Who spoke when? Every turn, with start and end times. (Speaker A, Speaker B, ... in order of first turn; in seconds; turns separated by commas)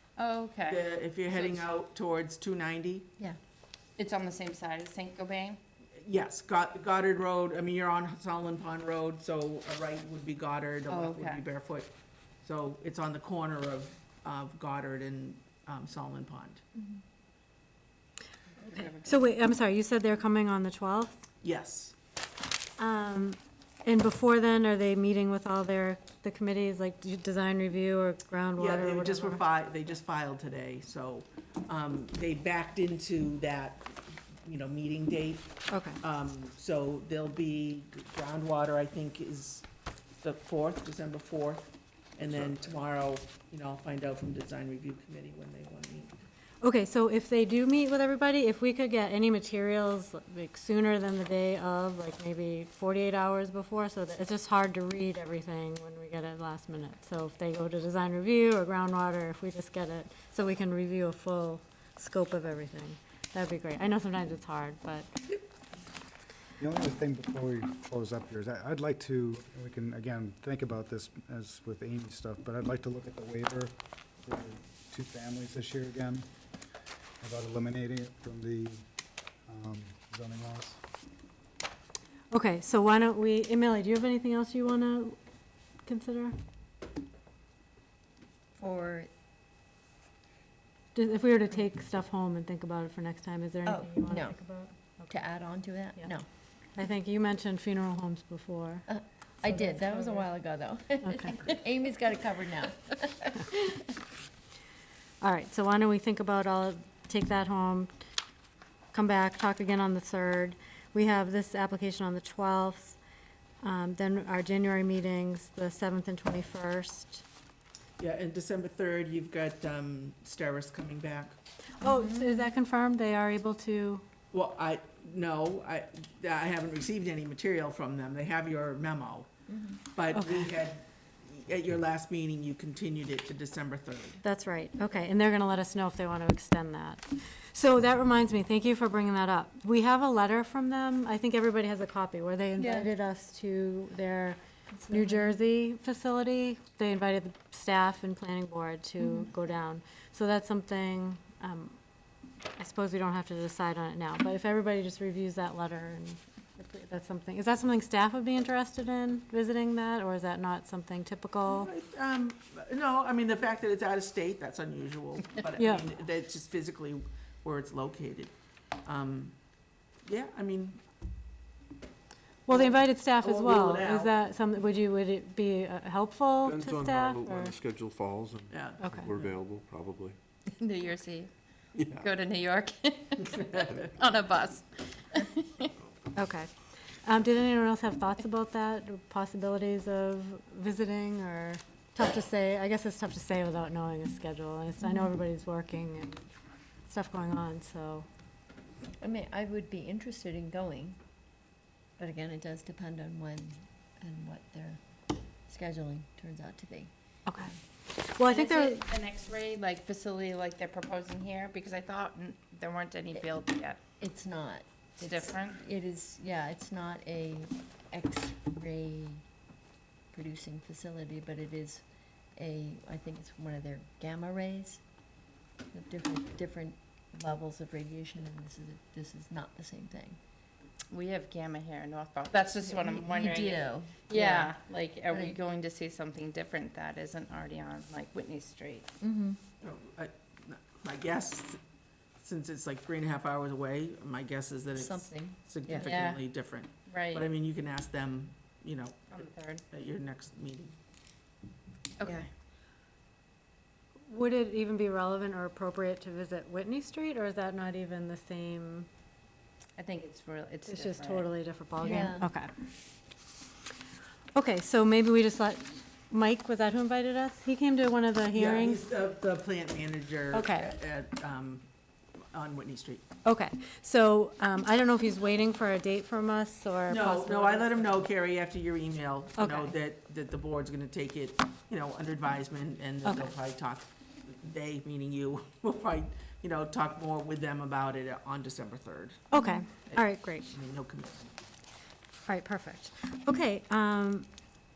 Speaker A: 0.2-1.6, Speaker B: 0.7-3.1, Speaker A: 4.0-5.6, Speaker B: 6.0-11.9, Speaker A: 10.9-11.4, Speaker B: 12.4-16.6, Speaker C: 18.8-21.2, Speaker B: 21.4-21.9, Speaker C: 22.8-29.4, Speaker B: 28.6-39.7, Speaker C: 35.7-36.0, Speaker B: 40.2-46.1, Speaker D: 42.2-42.5, Speaker C: 46.6-65.1, Speaker E: 66.6-76.3, Speaker E: 77.2-78.8, Speaker E: 79.5-80.8, Speaker C: 82.3-85.2, Speaker C: 85.8-86.3, Speaker F: 88.5-89.1, Speaker C: 90.9-95.1, Speaker F: 93.6-94.4, Speaker F: 95.1-96.2, Speaker C: 96.7-98.9, Speaker F: 98.9-103.9, Speaker C: 99.4-100.3, Speaker C: 101.0-101.3, Speaker C: 105.2-107.9, Speaker C: 108.9-113.0, Speaker C: 113.6-117.2, Speaker B: 118.0-121.3, Speaker C: 121.8-124.0, Speaker B: 124.3-129.3, Speaker F: 129.5-129.8, Speaker B: 129.9-134.2, Speaker C: 130.1-130.5, Speaker C: 134.2-151.8, Speaker F: 142.6-142.9, Speaker F: 144.8-145.3, Speaker F: 149.0-149.3, Speaker C: 152.6-161.7, Speaker B: 161.5-168.3, Speaker C: 165.6-165.8, Speaker B: 168.8-169.3, Speaker B: 170.0-170.8, Speaker C: 172.5-177.6, Speaker B: 172.5-174.1, Speaker D: 176.4-180.2, Speaker B: 178.5-179.3, Speaker C: 178.8-179.1, Speaker A: 180.6-185.7, Speaker C: 186.2-186.5, Speaker C: 187.0-196.3, Speaker C: 196.9-198.1, Speaker F: 199.0-201.0, Speaker F: 202.0-204.8, Speaker F: 205.5-207.6, Speaker C: 207.3-208.8, Speaker A: 208.3-213.8, Speaker F: 214.0-219.2, Speaker A: 215.0-215.6, Speaker F: 220.1-221.8, Speaker F: 222.3-224.8, Speaker F: 225.7-230.2, Speaker A: 230.9-238.9, Speaker F: 232.6-234.5, Speaker F: 235.1-235.4, Speaker F: 239.0-239.4, Speaker B: 239.6-241.6, Speaker B: 242.2-250.7, Speaker F: 244.7-246.1, Speaker A: 245.8-246.2, Speaker A: 246.8-247.3, Speaker A: 249.1-249.6, Speaker A: 252.0-252.3, Speaker C: 254.1-258.9, Speaker A: 259.8-261.3, Speaker C: 260.7-262.5, Speaker F: 261.8-262.3, Speaker C: 264.3-268.9, Speaker B: 268.3-271.6, Speaker C: 270.3-270.8, Speaker B: 272.3-273.1, Speaker C: 273.2-278.0, Speaker B: 276.9-291.3, Speaker C: 279.4-279.7, Speaker C: 283.0-283.3, Speaker C: 289.3-290.5, Speaker C: 292.2-294.3